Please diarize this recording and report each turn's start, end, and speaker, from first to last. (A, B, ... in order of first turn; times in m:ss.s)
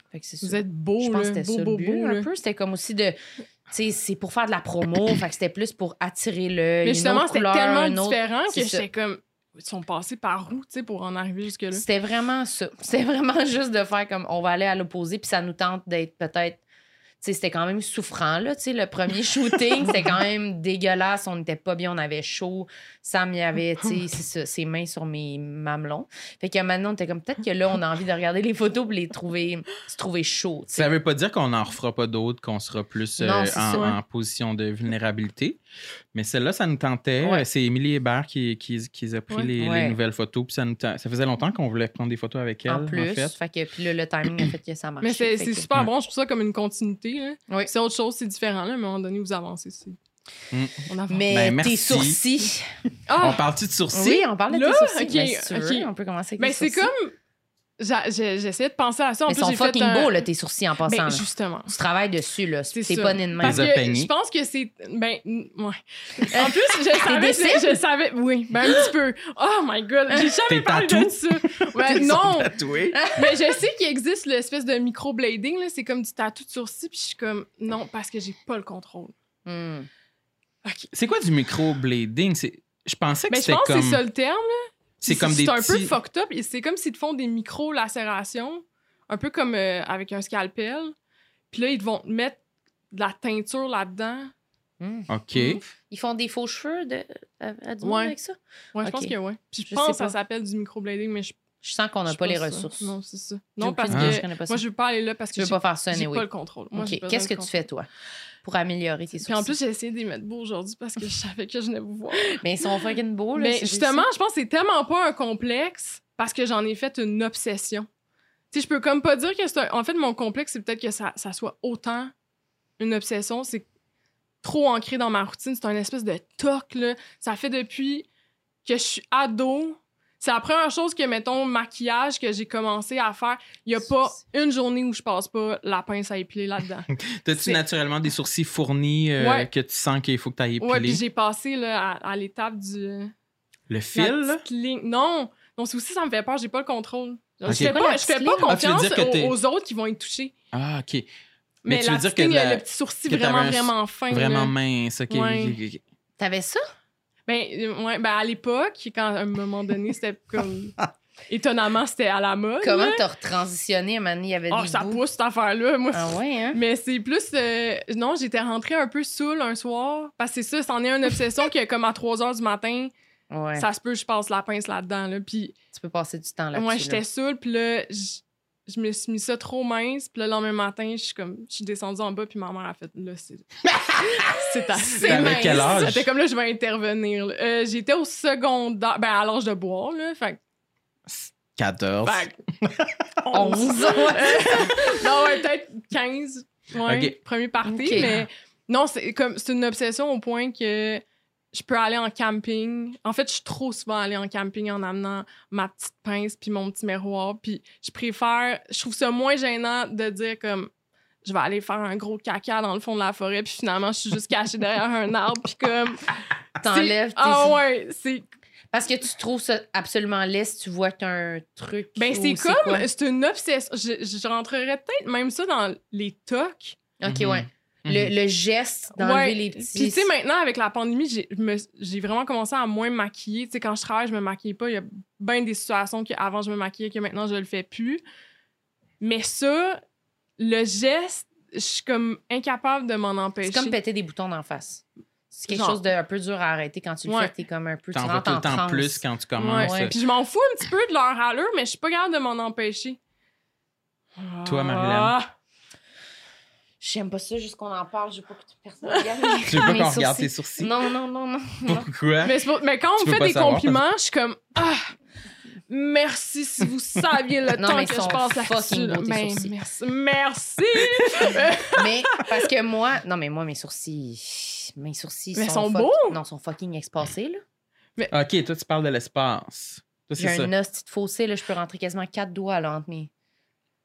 0:00.1-0:03.2 A
0:00.4-0:02.3 B
0:03.7-0:08.9 A
0:06.8-0:11.8 B
0:11.7-0:16.6 A
0:17.2-0:30.9 A
0:30.7-0:35.6 C
0:33.2-0:34.0 A
0:36.1-0:43.4 C
0:39.6-0:40.0 A
0:42.7-0:45.7 A
0:45.0-0:50.0 B
0:50.5-0:52.2 C
0:50.9-0:51.3 B
0:51.1-0:52.7 A
0:53.1-0:53.4 B
0:53.2-0:54.3 C
0:53.9-0:56.9 A
0:54.5-0:57.1 B
0:57.8-1:00.2 B
0:59.3-1:03.7 A
1:00.9-1:01.8 B
1:02.7-1:12.5 B
1:03.4-1:04.1 C
1:06.2-1:07.8 A
1:10.5-1:13.0 C
1:12.9-1:13.5 A
1:13.2-1:19.1 B
1:19.5-1:19.9 A
1:20.9-1:24.0 C
1:23.3-1:30.9 B
1:25.0-1:26.0 C
1:31.5-1:32.4 B
1:32.9-1:34.3 B
1:34.8-1:35.1 A
1:35.1-1:35.6 C
1:35.7-1:39.1 A
1:37.8-1:38.2 B
1:38.8-1:41.4 B
1:39.7-1:40.2 A
1:41.6-1:42.9 A
1:42.1-1:47.5 B
1:43.6-1:44.6 A
1:43.9-1:44.2 C
1:45.4-1:47.9 A
1:48.4-1:49.5 A
1:49.2-1:52.4 B
1:52.3-1:54.1 A
1:53.4-1:57.9 B
1:58.5-2:02.1 B
2:02.8-2:03.7 B
2:04.4-2:08.1 B
2:08.6-2:17.6 B
2:16.9-2:21.0 C
2:19.2-2:19.5 B
2:20.6-2:23.1 B
2:23.7-2:24.4 C
2:23.9-2:30.3 B
2:27.5-2:27.8 C
2:27.5-2:28.6 A
2:28.5-2:29.4 C
2:30.5-2:31.1 C
2:31.6-2:34.5 B
2:31.7-2:35.8 C
2:35.1-2:35.6 B
2:36.2-2:36.6 A
2:37.3-2:40.8 B
2:41.3-2:43.0 B
2:42.6-2:45.0 A
2:44.5-2:52.9 B
2:45.9-2:46.6 A
2:53.3-2:53.7 A
2:53.6-2:55.6 B
2:55.7-2:57.0 A
2:56.5-3:03.5 B
3:04.0-3:10.4 B
3:04.9-3:05.7 A
3:05.0-3:06.1 C
3:11.1-3:13.1 C
3:12.0-3:12.4 B
3:13.3-3:30.7 B
3:13.3-3:14.7 A
3:16.8-3:17.2 C
3:17.6-3:18.1 A
3:18.0-3:18.2 C
3:31.2-3:36.1 B
3:36.6-3:37.6 A
3:36.7-3:38.3 B
3:38.7-3:42.9 A
3:42.0-3:46.8 B
3:47.0-3:50.1 A
3:47.0-3:48.1 C
3:49.0-3:58.0 B
3:59.0-3:59.8 B
4:00.4-4:03.8 B
4:03.4-4:09.0 A
4:05.5-4:05.8 B
4:07.1-4:07.3 B
4:07.9-4:10.0 C
4:09.4-4:13.0 B
4:09.6-4:10.0 A
4:14.2-4:15.3 B
4:14.4-4:15.2 C
4:16.8-4:21.9 A
4:18.9-4:19.5 B
4:19.5-4:20.7 C
4:21.7-4:22.4 C
4:22.2-4:24.9 B
4:23.0-4:23.8 C
4:25.7-4:32.3 B
4:27.6-4:29.5 A
4:31.7-4:37.4 A
4:35.4-4:36.2 B
4:38.1-4:40.5 C
4:40.2-4:43.1 A